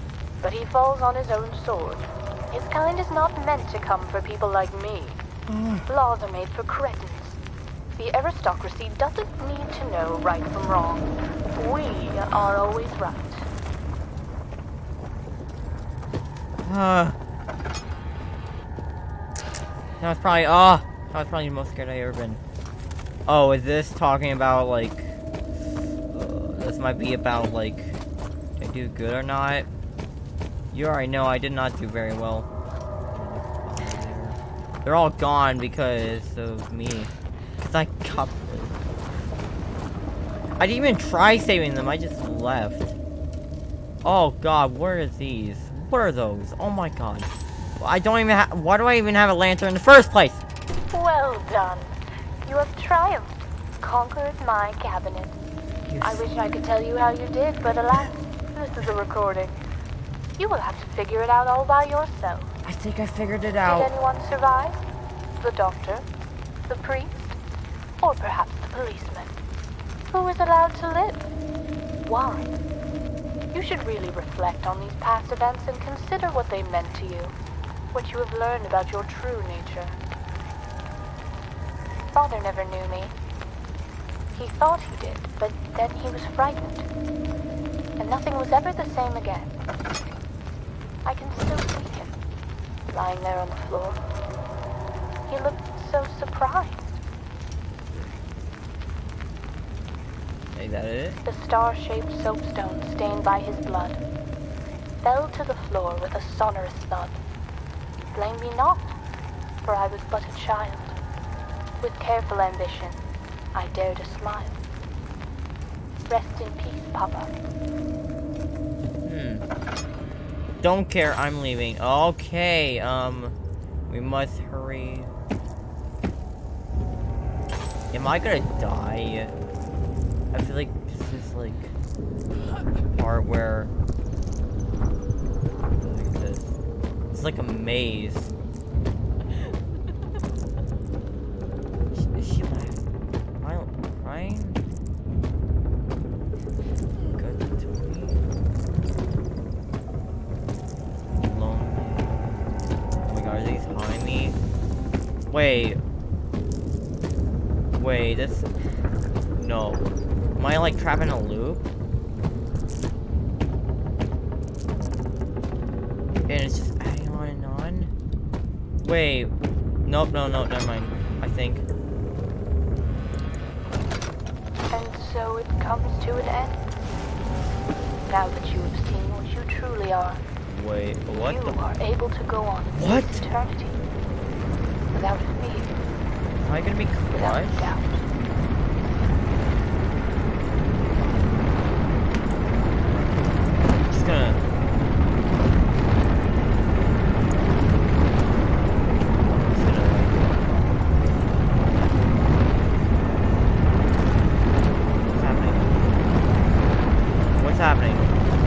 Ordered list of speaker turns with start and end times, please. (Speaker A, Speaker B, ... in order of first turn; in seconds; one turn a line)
Speaker A: 0.4-5.2
Speaker B: 5.5-5.8
Speaker A: 5.9-7.4
Speaker A: 8.0-13.5
Speaker B: 16.6-17.2
Speaker B: 20.0-22.4
Speaker B: 23.3-25.1
Speaker B: 26.1-28.0
Speaker B: 28.6-29.7
Speaker B: 30.7-32.5
Speaker B: 33.1-38.9
Speaker B: 40.6-43.0
Speaker B: 44.0-50.4
Speaker A: 50.9-51.9
Speaker A: 52.4-55.4
Speaker B: 55.9-56.2
Speaker A: 56.0-59.6
Speaker A: 60.4-62.5
Speaker B: 62.6-63.9
Speaker A: 63.6-64.8
Speaker A: 65.4-66.0
Speaker A: 66.7-67.3
Speaker A: 68.0-69.3
Speaker A: 70.1-71.3
Speaker A: 72.0-72.6
Speaker A: 73.5-77.3
Speaker A: 77.9-80.0
Speaker A: 82.1-83.1
Speaker A: 84.4-86.9
Speaker A: 88.0-89.6
Speaker A: 91.0-92.2
Speaker A: 92.9-94.0
Speaker A: 95.3-96.9
Speaker B: 100.5-101.2
Speaker A: 101.2-104.0
Speaker A: 105.0-107.2
Speaker A: 108.1-109.0
Speaker A: 109.6-111.0
Speaker A: 111.8-114.6
Speaker A: 116.1-117.3
Speaker B: 119.0-119.5
Speaker B: 120.6-123.4
Speaker B: 123.9-125.2
Speaker B: 127.9-129.3
Speaker B: 130.3-131.7
Speaker B: 132.9-133.7
Speaker B: 135.7-136.5
Speaker B: 137.1-138.3
Speaker B: 141.9-142.8
Speaker B: 143.4-144.6
Speaker B: 147.1-148.3
Speaker B: 151.2-152.2
Speaker B: 153.1-154.4
Speaker B: 155.3-155.8
Speaker B: 157.7-158.5
Speaker B: 159.4-161.7
Speaker B: 166.3-167.9
Speaker B: 168.8-169.3
Speaker B: 169.9-171.7
Speaker A: 174.7-176.7
Speaker A: 178.1-180.2
Speaker B: 180.5-181.6
Speaker A: 181.1-183.8
Speaker B: 182.8-183.2
Speaker A: 184.9-185.8
Speaker B: 186.4-187.7
Speaker A: 187.1-188.1
Speaker B: 193.9-194.4
Speaker B: 199.2-200.5
Speaker B: 205.1-206.1
Speaker B: 207.4-208.1